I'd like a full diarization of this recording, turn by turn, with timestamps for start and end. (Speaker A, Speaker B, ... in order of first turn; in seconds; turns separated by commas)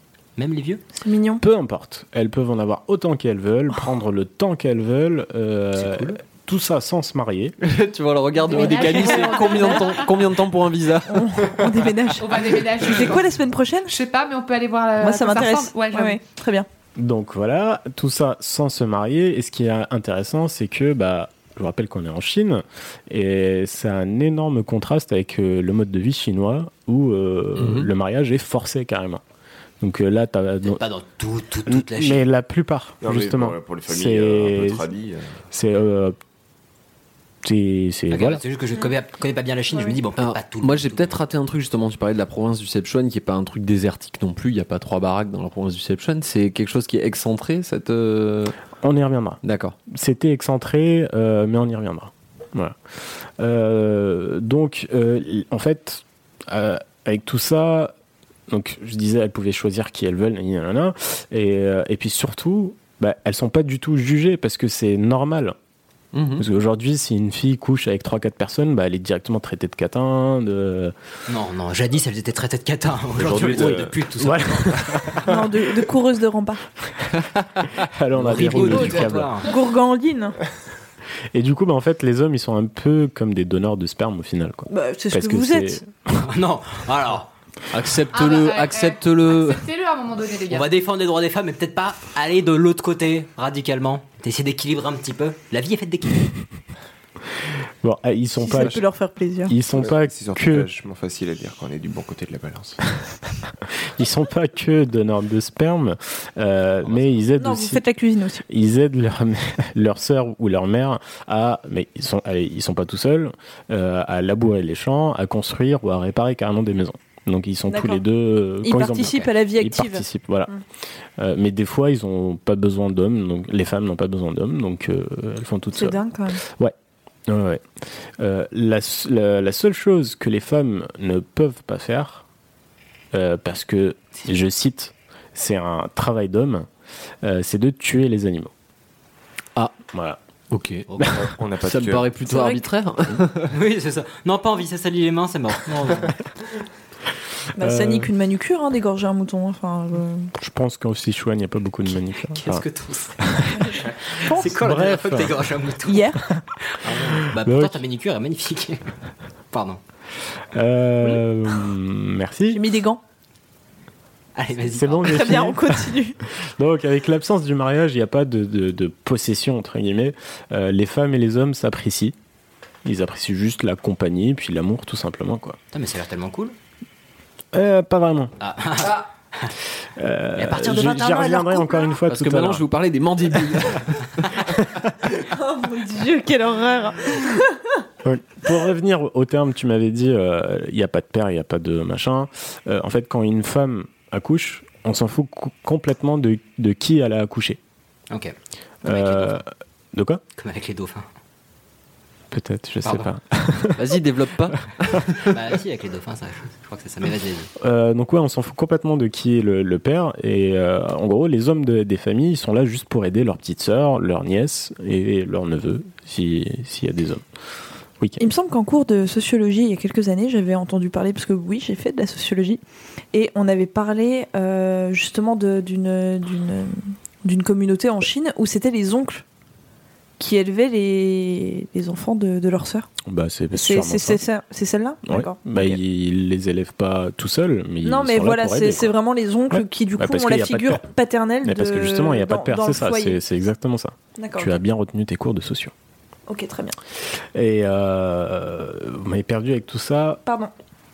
Speaker A: 0.4-0.8, Speaker B: 1.0-1.4, Speaker C: 1.4-7.5, Speaker A: 5.8-6.2, Speaker D: 7.6-11.4, Speaker E: 8.4-10.1, Speaker B: 8.5-9.9, Speaker B: 11.1-13.9, Speaker E: 12.2-13.3, Speaker E: 13.8-16.2, Speaker B: 15.0-16.7, Speaker C: 17.0-29.2, Speaker D: 27.6-27.9, Speaker C: 29.8-30.8, Speaker A: 30.6-32.2, Speaker C: 31.7-34.9, Speaker F: 33.0-35.4, Speaker C: 35.5-36.1, Speaker C: 37.4-38.4, Speaker A: 38.1-41.2, Speaker D: 40.2-48.5, Speaker C: 48.8-52.8, Speaker D: 49.4-49.8, Speaker C: 53.4-57.9, Speaker C: 58.5-65.5, Speaker D: 66.1-66.4, Speaker C: 66.4-70.9, Speaker A: 71.3-75.2, Speaker F: 73.2-73.9, Speaker C: 74.2-75.3, Speaker B: 75.3-76.6, Speaker C: 77.8-79.3, Speaker A: 78.2-79.5, Speaker B: 79.4-80.3, Speaker C: 81.3-86.3, Speaker B: 84.7-85.8, Speaker A: 86.2-87.3, Speaker D: 87.7-89.7, Speaker E: 88.1-90.7, Speaker A: 90.5-96.3, Speaker C: 97.8-98.8, Speaker B: 98.4-99.5, Speaker C: 99.5-100.7, Speaker F: 99.7-102.8, Speaker C: 104.0-107.8, Speaker A: 106.8-107.2, Speaker B: 107.4-108.4, Speaker C: 108.5-120.5, Speaker B: 117.7-118.0, Speaker B: 118.6-120.6, Speaker C: 121.2-126.0, Speaker B: 125.7-126.4, Speaker C: 127.3-127.6, Speaker C: 128.2-132.2, Speaker C: 133.1-136.7, Speaker C: 137.2-138.5, Speaker C: 139.9-140.2, Speaker D: 140.5-141.1, Speaker F: 141.1-142.1, Speaker D: 141.6-143.5, Speaker B: 142.3-142.6, Speaker A: 143.5-146.2, Speaker C: 147.6-148.1, Speaker B: 147.6-150.3, Speaker C: 150.4-152.6, Speaker A: 151.9-156.1, Speaker C: 153.2-153.7, Speaker C: 154.2-155.5, Speaker B: 155.8-156.2, Speaker C: 156.3-157.8, Speaker A: 156.6-158.9, Speaker A: 159.5-159.8, Speaker C: 160.5-162.6, Speaker B: 162.5-163.0, Speaker A: 164.3-165.4, Speaker C: 164.7-172.1, Speaker B: 165.1-166.2, Speaker C: 172.8-175.6, Speaker A: 175.7-176.5, Speaker C: 177.5-178.3, Speaker A: 178.4-179.5, Speaker C: 180.0-182.7, Speaker A: 180.4-180.8, Speaker B: 180.6-182.0, Speaker D: 182.1-183.8, Speaker C: 184.5-184.9, Speaker B: 185.3-187.6, Speaker C: 188.0-197.6, Speaker C: 198.8-200.2, Speaker A: 198.8-199.4, Speaker A: 200.4-201.1, Speaker C: 202.3-203.9, Speaker D: 203.8-205.1, Speaker A: 205.2-207.5, Speaker C: 207.6-217.2, Speaker B: 218.2-222.6, Speaker B: 223.1-229.2, Speaker B: 230.2-232.9, Speaker C: 233.1-234.2, Speaker B: 233.5-235.4, Speaker C: 235.1-238.9, Speaker B: 237.8-243.2, Speaker C: 239.5-240.9, Speaker C: 241.4-245.7, Speaker B: 244.2-244.6, Speaker B: 246.3-246.8, Speaker C: 247.3-250.2, Speaker B: 250.2-250.5